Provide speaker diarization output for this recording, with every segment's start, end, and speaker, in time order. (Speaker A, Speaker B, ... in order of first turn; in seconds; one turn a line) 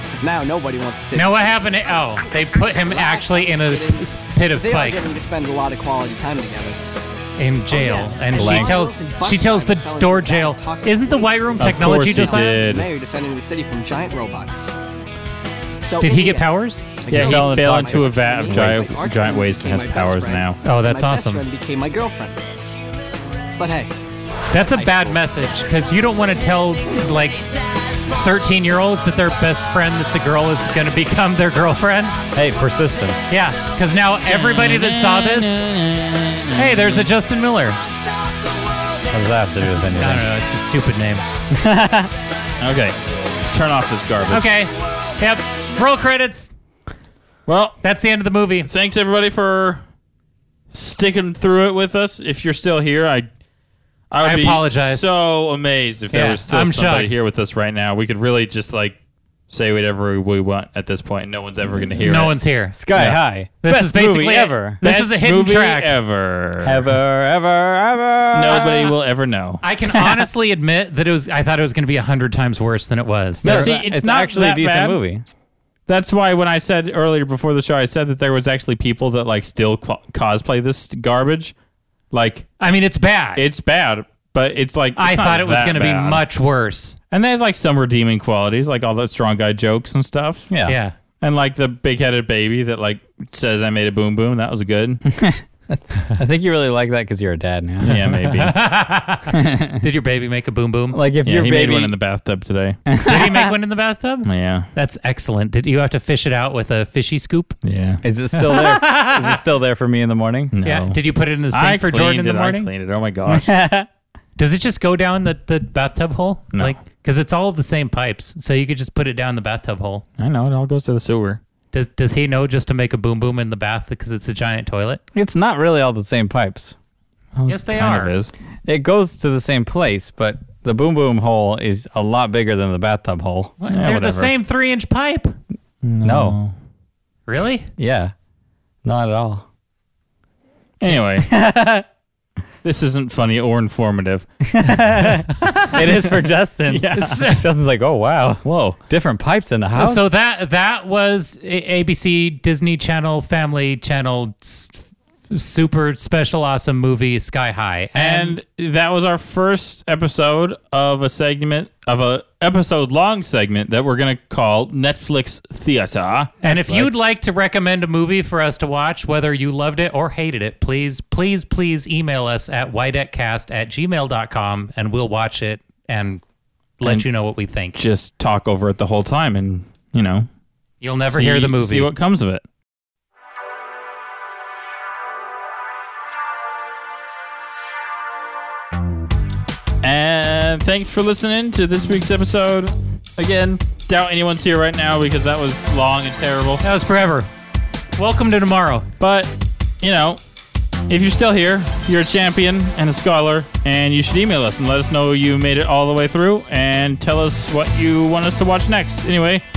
Speaker A: 0.2-6.8
Speaker B: 1.1-5.1
Speaker B: 7.4-12.6
Speaker A: 7.7-14.7
Speaker C: 8.3-8.9
Speaker D: 11.6-12.9
Speaker A: 15.8-16.5
Speaker B: 16.0-16.9
Speaker A: 17.0-22.5
Speaker D: 17.1-20.6
Speaker C: 17.1-17.9
Speaker C: 18.5-19.0
Speaker B: 20.6-21.4
Speaker A: 23.6-24.1
Speaker B: 24.5-32.2
Speaker A: 24.7-25.2
Speaker C: 32.3-33.3
Speaker B: 33.3-35.6
Speaker D: 34.3-37.1
Speaker B: 36.6-37.8
Speaker C: 39.1-40.2
Speaker B: 39.6-41.2
Speaker C: 41.5-42.1
Speaker D: 42.6-44.6
Speaker B: 44.3-46.5
Speaker D: 47.5-47.8
Speaker B: 47.8-48.7
Speaker D: 48.7-49.8
Speaker D: 50.7-53.3
Speaker D: 54.1-59.0
Speaker B: 54.2-55.1
Speaker B: 56.1-57.1
Speaker D: 59.5-62.4
Speaker C: 61.7-62.1
Speaker B: 62.0-62.8
Speaker C: 62.7-64.8
Speaker D: 62.9-63.2
Speaker B: 63.6-65.9
Speaker D: 64.8-66.9
Speaker C: 66.6-68.9
Speaker D: 68.3-69.6
Speaker B: 69.6-73.7
Speaker C: 69.9-70.3
Speaker D: 73.4-75.0
Speaker C: 73.4-75.3
Speaker D: 75.9-81.5
Speaker D: 82.1-82.5
Speaker B: 82.6-83.4
Speaker D: 83.4-86.2
Speaker B: 85.0-87.0
Speaker D: 87.1-90.5
Speaker C: 90.5-90.8
Speaker B: 90.7-91.0
Speaker D: 91.2-95.0
Speaker C: 95.1-98.3
Speaker D: 97.8-98.5
Speaker B: 98.4-101.0
Speaker C: 99.3-99.8
Speaker C: 100.9-101.9
Speaker D: 101.2-102.8
Speaker C: 102.9-103.5
Speaker B: 103.0-107.6
Speaker D: 104.2-104.7
Speaker D: 107.6-108.0
Speaker C: 108.0-110.5
Speaker B: 108.3-109.4
Speaker D: 110.5-113.5
Speaker B: 110.7-112.7
Speaker C: 113.3-113.9
Speaker B: 114.4-120.0
Speaker D: 120.2-121.4
Speaker B: 121.7-125.0
Speaker C: 125.1-126.8
Speaker D: 127.4-128.3
Speaker B: 127.5-128.1
Speaker C: 128.7-133.6
Speaker B: 133.6-135.4
Speaker D: 133.7-134.3
Speaker D: 135.8-136.5
Speaker C: 136.0-136.4
Speaker B: 137.3-137.7
Speaker C: 137.8-138.1
Speaker C: 138.8-139.5
Speaker D: 140.8-141.3
Speaker C: 141.2-141.9
Speaker D: 142.6-144.3
Speaker C: 144.5-150.1
Speaker B: 145.4-145.8
Speaker D: 146.7-147.2
Speaker B: 146.9-147.5
Speaker D: 148.4-148.8
Speaker B: 149.8-154.8
Speaker B: 155.3-158.4
Speaker D: 157.9-167.1
Speaker B: 166.4-176.2
Speaker B: 176.8-177.8
Speaker D: 177.8-180.3
Speaker B: 180.8-181.9
Speaker D: 181.1-182.4
Speaker D: 189.8-196.6
Speaker B: 196.6-197.3
Speaker B: 198.0-198.9
Speaker D: 199.0-200.2
Speaker D: 200.9-209.4